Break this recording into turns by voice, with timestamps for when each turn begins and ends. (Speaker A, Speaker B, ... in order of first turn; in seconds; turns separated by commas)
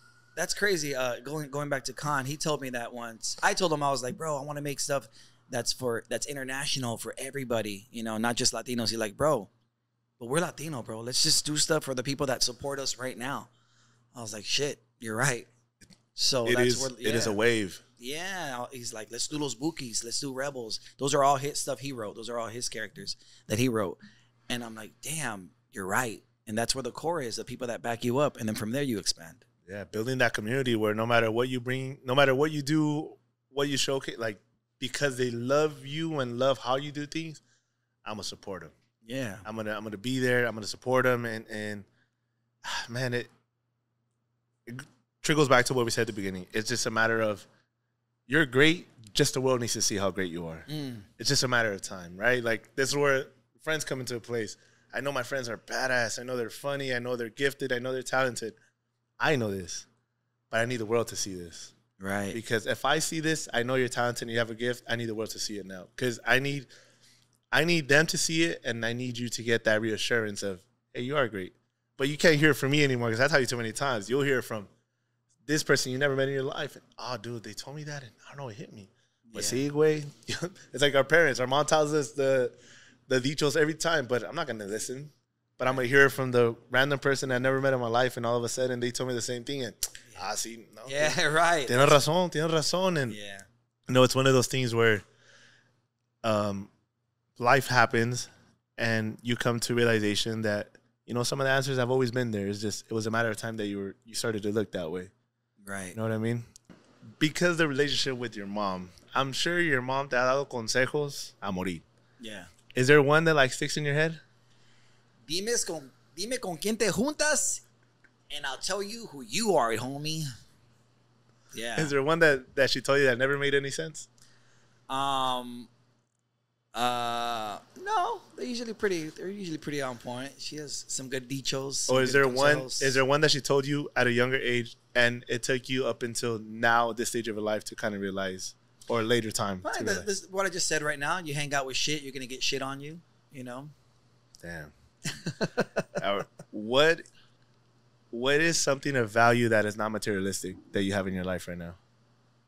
Speaker A: 0.4-9.5, Speaker A: 10.2-13.5, Speaker A: 14.1-15.5, Speaker A: 16.2-17.4, Speaker B: 16.4-17.8, Speaker A: 18.0-29.4, Speaker B: 29.7-37.4, Speaker B: 38.0-38.7, Speaker A: 39.0-39.5, Speaker B: 39.5-41.9, Speaker B: 42.6-43.3, Speaker B: 44.7-47.5, Speaker B: 48.3-50.7, Speaker A: 50.7-51.1, Speaker B: 51.2-58.6, Speaker B: 59.2-59.9, Speaker B: 60.5-61.7, Speaker A: 62.0-62.4, Speaker B: 62.3-66.7, Speaker B: 67.5-74.7, Speaker B: 75.5-82.6, Speaker A: 79.3-79.6, Speaker B: 83.1-93.2, Speaker A: 90.9-92.0, Speaker A: 93.1-93.5, Speaker B: 93.9-95.0, Speaker B: 96.2-96.7, Speaker B: 97.4-105.1, Speaker A: 105.6-106.0, Speaker B: 105.9-106.5, Speaker B: 107.2-111.8, Speaker A: 112.2-112.5, Speaker B: 112.7-114.2, Speaker A: 115.3-117.6, Speaker A: 118.3-120.3, Speaker A: 121.5-121.9, Speaker B: 121.8-124.1, Speaker A: 124.9-125.7, Speaker A: 126.8-133.0, Speaker B: 131.9-140.1, Speaker A: 139.6-143.7, Speaker B: 144.4-144.7, Speaker A: 145.1-145.9, Speaker B: 146.0-147.1, Speaker B: 148.1-151.8